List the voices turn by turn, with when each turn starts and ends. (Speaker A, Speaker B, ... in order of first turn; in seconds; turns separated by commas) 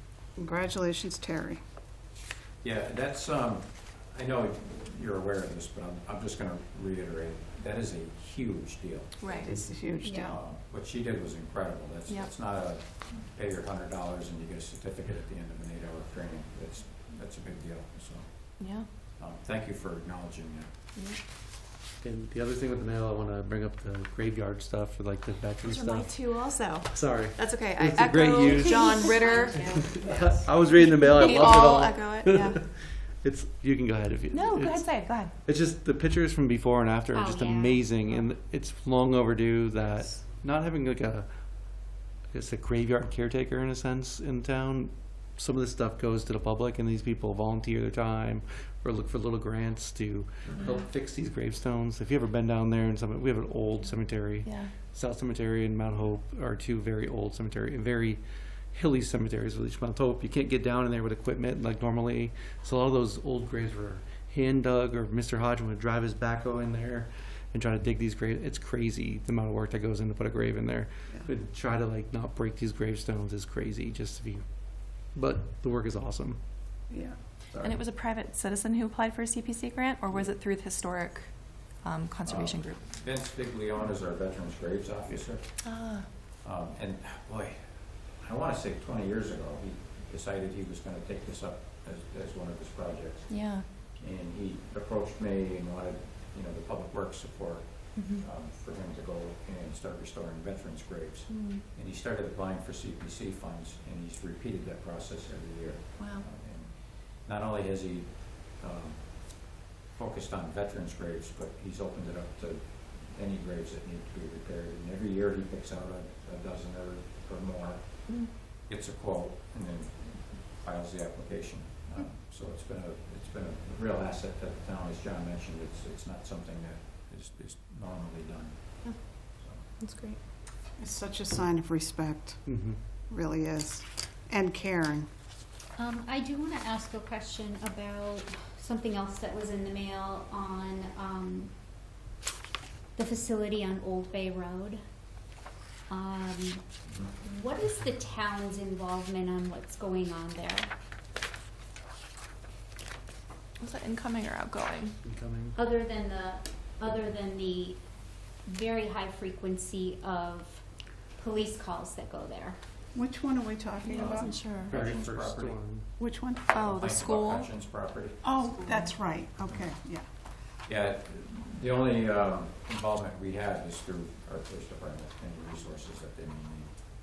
Speaker A: 0.3-1.6, Speaker B: 2.6-9.4, Speaker C: 9.2-9.5, Speaker A: 9.4-10.4, Speaker D: 10.0-10.3, Speaker B: 10.2-20.9, Speaker C: 12.1-12.3, Speaker C: 18.6-18.9, Speaker E: 22.0-26.3, Speaker C: 25.6-32.6, Speaker E: 26.9-28.8, Speaker D: 28.5-29.6, Speaker E: 29.5-58.2, Speaker D: 31.2-31.5, Speaker C: 34.3-35.3, Speaker D: 37.1-38.0, Speaker C: 54.4-54.7, Speaker E: 58.7-76.4, Speaker A: 76.9-77.8, Speaker C: 77.6-82.9, Speaker B: 82.2-85.7, Speaker C: 85.6-86.1, Speaker B: 86.4-129.7, Speaker C: 93.3-93.7, Speaker C: 98.0-98.2, Speaker C: 106.0-106.3, Speaker C: 129.8-130.2, Speaker A: 130.8-132.6, Speaker E: 132.5-132.8, Speaker A: 133.1-135.1, Speaker D: 135.8-141.5, Speaker D: 142.9-144.8, Speaker D: 145.9-146.6, Speaker D: 147.2-150.7, Speaker C: 153.6-154.9, Speaker E: 155.0-155.5, Speaker D: 155.6-157.8, Speaker D: 158.4-160.6, Speaker D: 161.2-162.6, Speaker A: 162.9-164.3, Speaker C: 163.8-164.8, Speaker B: 164.7-165.6, Speaker E: 164.7-165.9, Speaker A: 166.0-166.5, Speaker C: 166.5-167.5, Speaker B: 166.6-168.2, Speaker A: 168.2-170.1, Speaker B: 170.7-176.7